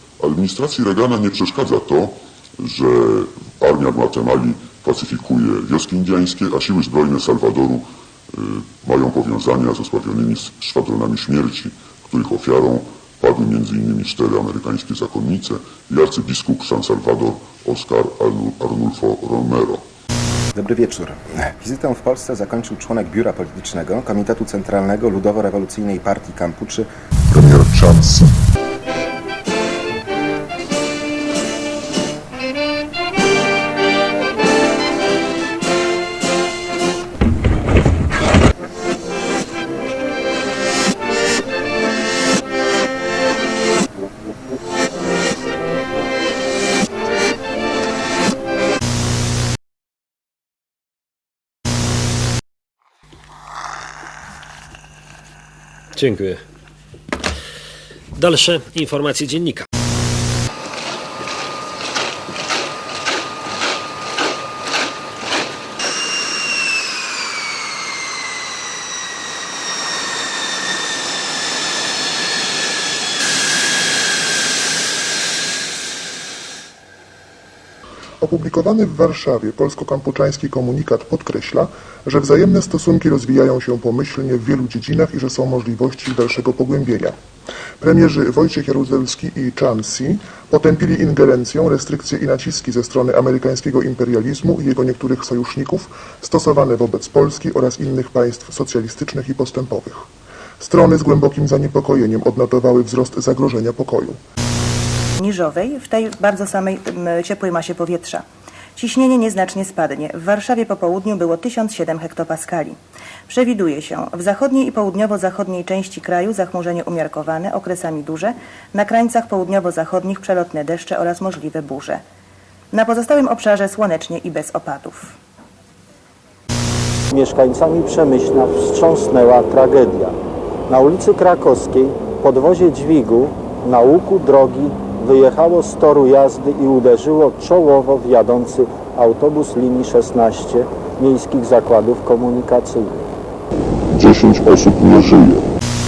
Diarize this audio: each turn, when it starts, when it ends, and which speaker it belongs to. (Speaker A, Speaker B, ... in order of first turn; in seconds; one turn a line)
Speaker A: 0.2-19.8
Speaker B: 20.6-26.9
Speaker C: 27.3-28.3
Speaker D: 56.0-56.4
Speaker D: 58.1-59.6
Speaker C: 78.2-87.2
Speaker C: 87.8-100.1
Speaker C: 100.6-104.2
Speaker E: 105.2-108.2
Speaker E: 108.8-112.8
Speaker E: 113.3-122.0
Speaker E: 122.7-125.2
Speaker F: 127.1-130.2
Speaker F: 130.7-142.9
Speaker A: 143.9-145.4